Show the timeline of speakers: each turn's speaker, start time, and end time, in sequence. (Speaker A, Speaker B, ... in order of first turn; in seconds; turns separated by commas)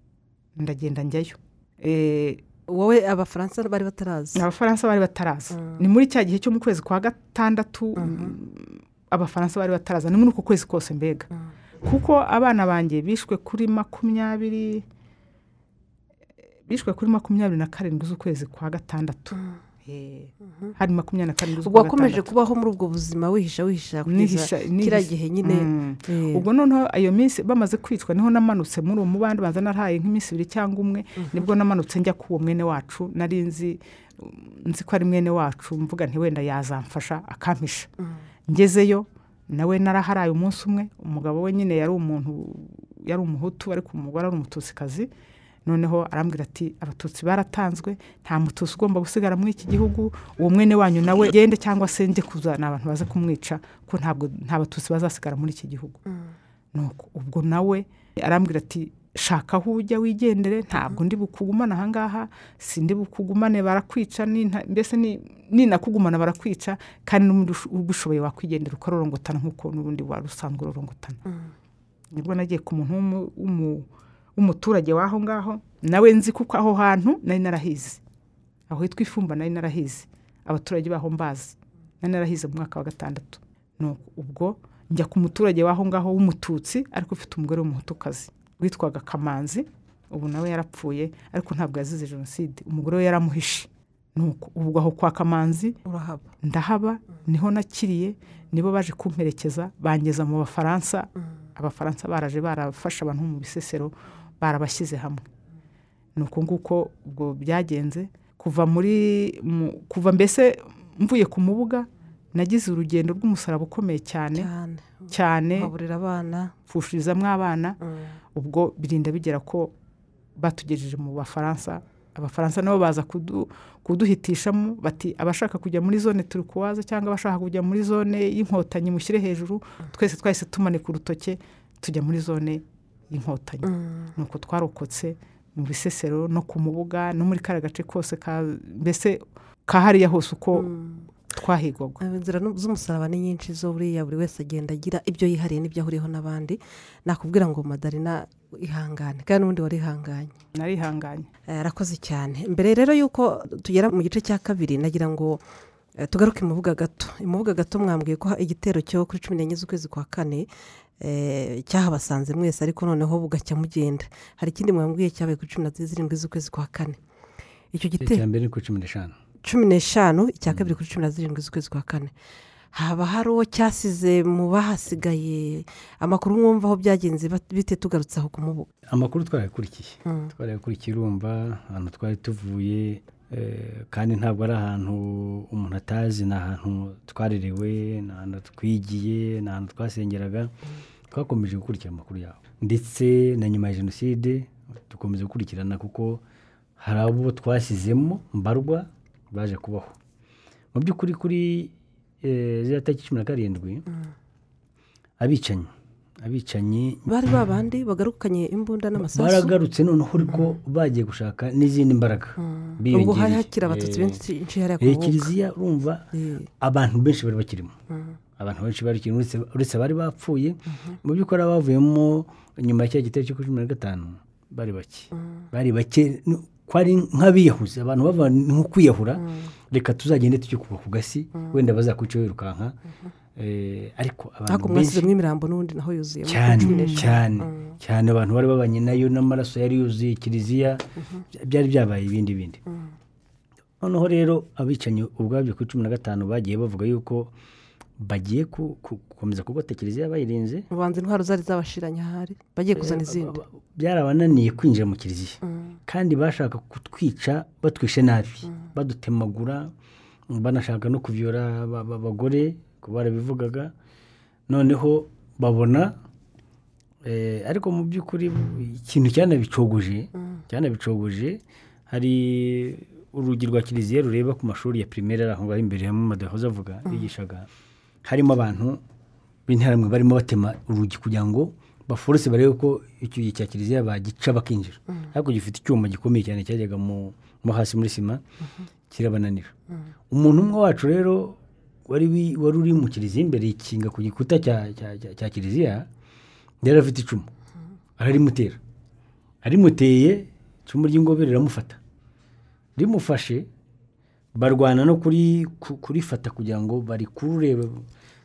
Speaker A: 0.6-2.4, Speaker B: 2.7-4.4, Speaker A: 4.3-11.3, Speaker B: 8.0-8.3, Speaker A: 11.8-14.8, Speaker A: 16.7-22.3, Speaker B: 21.6-26.4, Speaker A: 24.1-37.9, Speaker A: 38.5-45.1, Speaker A: 45.7-56.0, Speaker A: 56.7-71.2, Speaker A: 72.1-78.0, Speaker A: 78.7-95.8, Speaker B: 95.8-96.2, Speaker A: 96.4-105.2, Speaker A: 106.2-114.5, Speaker B: 114.3-116.5, Speaker A: 115.1-115.7, Speaker A: 116.7-117.8, Speaker A: 118.3-119.7, Speaker A: 120.4-140.7, Speaker B: 133.7-134.1, Speaker B: 140.6-141.1, Speaker A: 141.3-142.0, Speaker B: 142.0-150.3, Speaker A: 150.6-151.3, Speaker B: 151.5-155.4, Speaker B: 156.0-160.5, Speaker B: 161.0-167.0, Speaker B: 167.7-168.2, Speaker C: 168.0-169.2, Speaker B: 169.4-172.1, Speaker B: 172.7-178.7, Speaker C: 178.9-190.6, Speaker B: 180.1-180.3, Speaker C: 191.1-196.2, Speaker C: 196.8-199.9, Speaker C: 200.7-203.9, Speaker C: 205.2-207.1, Speaker B: 207.1-209.5, Speaker C: 209.0-214.2, Speaker B: 212.4-215.3, Speaker C: 214.8-216.1, Speaker B: 216.1-216.5, Speaker C: 216.6-217.8, Speaker C: 218.4-232.8, Speaker B: 229.2-229.5, Speaker C: 233.4-235.1, Speaker B: 234.5-237.8, Speaker C: 236.3-242.6, Speaker A: 236.7-237.0, Speaker C: 243.8-247.3, Speaker C: 248.0-250.7, Speaker B: 250.7-253.4, Speaker C: 252.8-259.7, Speaker C: 260.3-263.7, Speaker C: 264.5-265.9, Speaker C: 267.0-277.5, Speaker C: 278.0-278.8, Speaker C: 279.5-288.2, Speaker C: 288.9-289.5, Speaker C: 290.1-295.9, Speaker C: 296.6-297.3, Speaker C: 298.0-298.6, Speaker C: 299.4-301.8, Speaker C: 302.8-303.5, Speaker C: 304.4-307.9